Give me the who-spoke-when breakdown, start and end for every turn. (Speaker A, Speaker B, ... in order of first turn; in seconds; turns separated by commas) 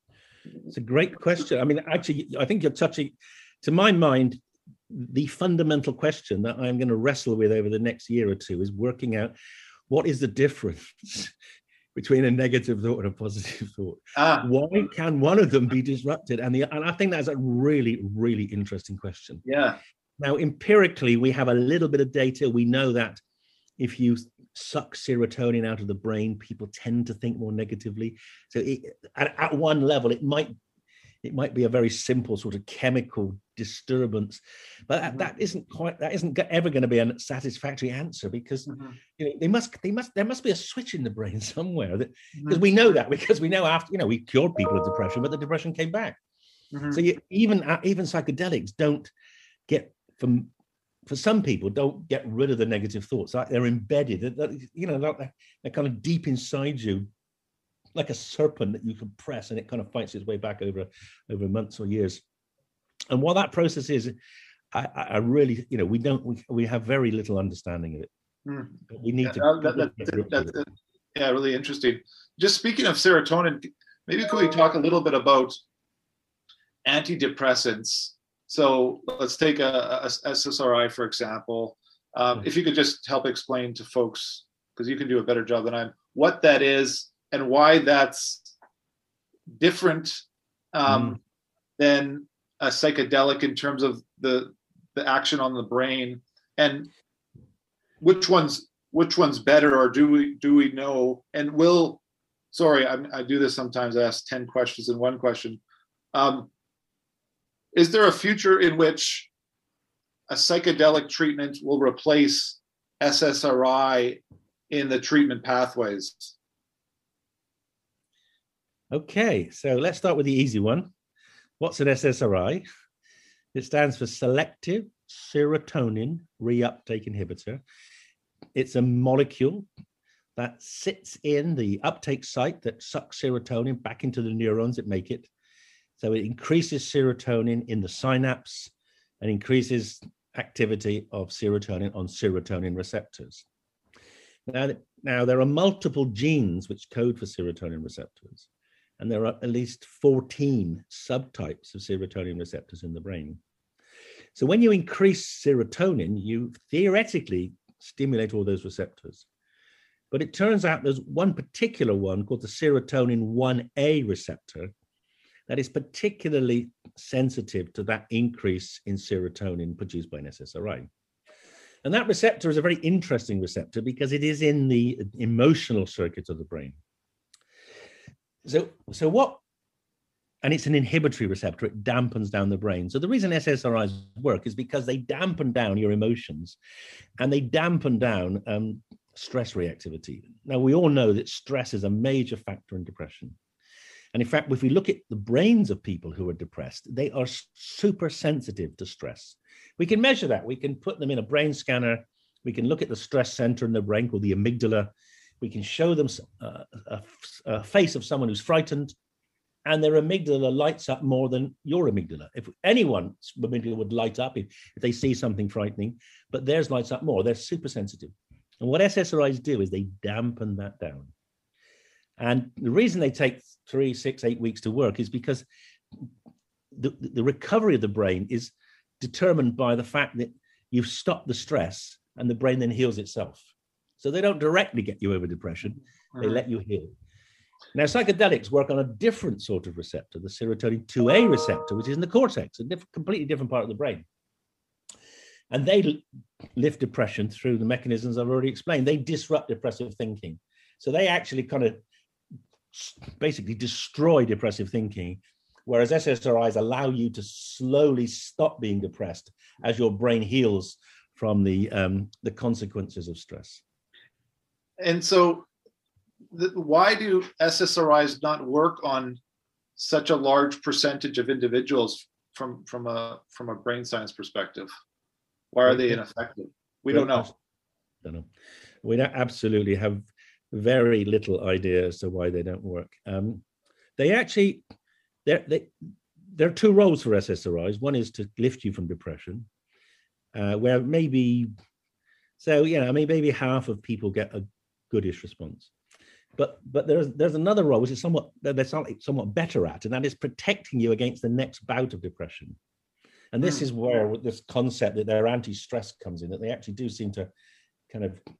Speaker A: 0.7-9.3, Speaker A: 9.9-11.3, Speaker A: 11.9-19.4, Speaker B: 14.1-14.5, Speaker B: 19.4-19.8, Speaker A: 20.2-23.2, Speaker A: 23.8-30.5, Speaker A: 31.2-46.2, Speaker B: 38.7-39.0, Speaker B: 42.4-42.6, Speaker B: 46.7-47.0, Speaker A: 46.9-49.1, Speaker A: 49.7-50.5, Speaker A: 51.1-57.1, Speaker A: 57.9-62.2, Speaker A: 63.1-64.1, Speaker A: 64.7-68.1, Speaker B: 68.5-75.6, Speaker A: 68.9-70.5, Speaker B: 76.8-88.5, Speaker B: 89.6-90.2, Speaker B: 90.7-91.2, Speaker A: 90.9-91.2, Speaker B: 91.8-96.9, Speaker B: 98.0-102.0, Speaker B: 102.5-105.6, Speaker B: 106.1-106.5, Speaker B: 107.7-109.3, Speaker B: 110.3-116.3, Speaker A: 118.9-120.9, Speaker A: 121.6-122.6, Speaker A: 123.5-127.6, Speaker A: 128.5-129.7, Speaker A: 130.3-135.3, Speaker A: 136.0-143.4, Speaker A: 144.5-148.5, Speaker A: 149.0-153.4, Speaker A: 154.3-159.2, Speaker A: 160.1-164.7, Speaker A: 165.5-170.9, Speaker A: 171.8-176.8, Speaker A: 178.4-179.4, Speaker A: 180.4-186.6, Speaker A: 187.2-193.4, Speaker A: 194.1-208.9, Speaker A: 209.7-221.1, Speaker A: 222.2-225.4, Speaker A: 226.7-233.4, Speaker A: 234.0-236.9, Speaker B: 236.2-236.4, Speaker A: 237.7-244.0, Speaker A: 245.5-246.0, Speaker A: 246.5-251.8, Speaker A: 252.7-263.6, Speaker B: 264.8-265.5, Speaker B: 266.3-269.2, Speaker B: 269.8-274.7, Speaker B: 275.5-277.3, Speaker A: 275.7-276.0, Speaker A: 276.9-277.3, Speaker A: 278.0-278.3, Speaker A: 278.8-283.4, Speaker A: 284.0-284.6, Speaker A: 285.2-285.7, Speaker A: 286.3-289.5, Speaker A: 290.3-291.5, Speaker A: 292.4-295.7, Speaker A: 296.4-302.6, Speaker A: 303.3-307.3, Speaker A: 307.9-308.2